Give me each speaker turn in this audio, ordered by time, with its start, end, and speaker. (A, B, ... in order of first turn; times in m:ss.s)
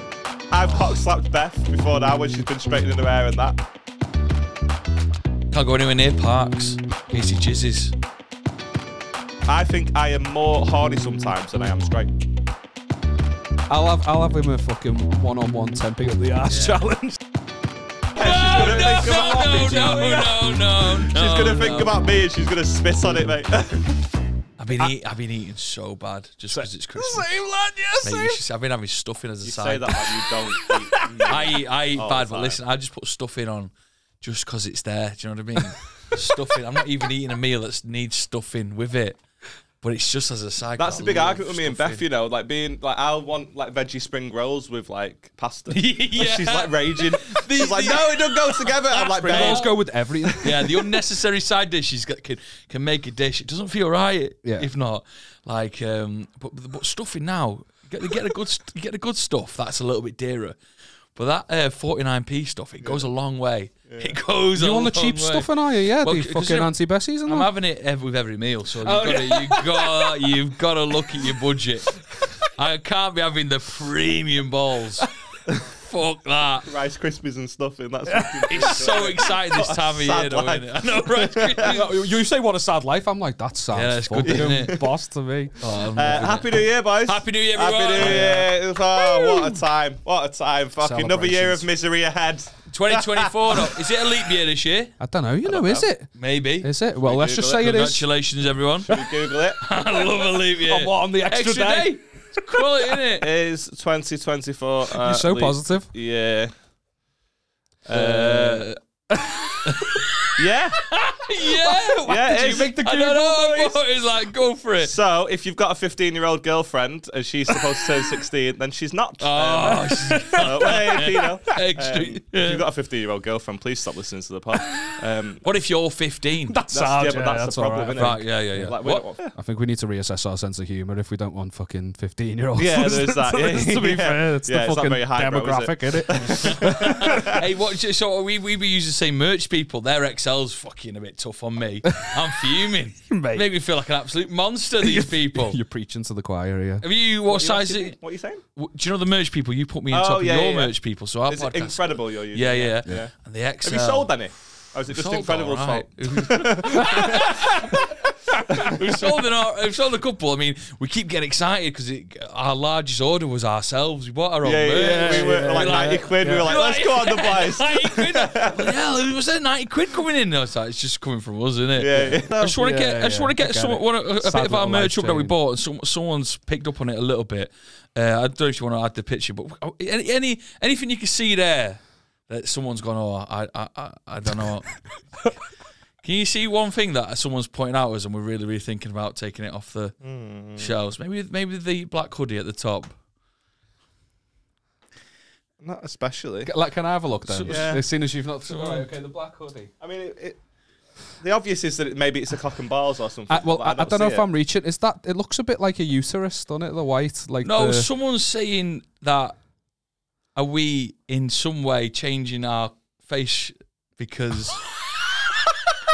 0:00.5-0:03.6 A
0:05.5-0:07.9 B
0:09.4-0:12.1 A
0:13.7-0:17.2 C
0:16.5-0:16.8 B
0:18.1-0:24.0 A
0:18.2-0:22.0 B
0:18.3-0:20.3 C
0:24.6-0:27.3 B
0:26.5-0:28.4 C
0:28.0-0:30.2 B
0:29.4-0:32.6 A
0:30.5-0:31.3 C
0:31.2-0:39.2 B
0:39.8-0:42.0 B
0:40.8-0:49.7 A
0:45.7-0:49.8 B
0:49.2-0:50.5 C
0:50.4-1:00.6 B
1:01.1-1:05.5 B
1:03.9-1:04.2 A
1:04.6-1:07.5 C
1:06.0-1:06.7 B
1:07.2-1:11.9 B
1:08.8-1:10.2 C
1:12.6-1:15.1 B
1:15.6-1:16.7 B
1:16.7-1:21.8 A
1:18.0-1:18.7 C
1:18.5-1:21.9 B
1:21.6-1:26.2 C
1:23.7-1:24.8 B
1:24.2-1:24.9 A
1:25.6-1:28.5 B
1:25.9-1:33.7 A
1:28.0-1:28.4 C
1:29.0-1:29.5 C
1:30.8-1:31.7 C
1:32.7-1:35.0 B
1:35.0-1:38.1 C
1:35.5-1:35.8 A
1:36.1-1:36.7 B
1:37.0-1:37.8 A
1:37.5-1:39.0 B
1:38.9-1:39.6 A
1:39.6-1:43.3 B
1:39.9-1:42.7 C
1:43.2-1:46.5 A
1:44.9-1:45.9 C
1:47.8-1:48.6 A
1:47.9-1:48.8 B
1:49.1-1:49.8 C
1:49.6-1:54.9 B
1:50.4-1:50.8 A
1:51.4-1:53.8 C
1:52.1-1:52.7 A
1:54.8-2:05.4 A
1:57.5-1:58.1 C
1:59.2-2:02.6 B
1:59.6-2:01.3 C
2:05.4-2:06.6 B
2:06.5-2:08.7 C
2:06.7-2:09.3 A
2:08.0-2:09.0 B
2:09.3-2:17.4 C
2:12.6-2:17.4 A
2:16.1-2:25.6 B
2:23.1-2:23.5 C
2:24.8-2:26.8 C
2:26.8-2:28.0 B
2:27.2-2:28.4 A
2:28.6-2:34.2 B
2:29.9-2:30.7 A
2:31.3-2:37.5 A
2:34.9-2:37.8 B
2:36.8-2:37.7 C
2:38.5-3:04.7 B
2:44.4-2:48.7 A
2:44.7-2:46.6 C
2:51.8-2:52.6 A
2:52.1-2:55.4 C
3:06.0-3:09.9 B
3:10.0-3:10.7 A
3:10.6-3:12.9 B
3:15.6-3:16.5 A
3:16.4-3:19.7 C
3:17.2-3:17.8 B
3:17.4-3:17.8 A
3:18.4-3:18.9 B
3:19.8-3:20.4 A
3:21.2-3:24.3 A
3:23.3-3:27.9 C
3:27.4-3:29.4 B
3:30.3-3:34.6 B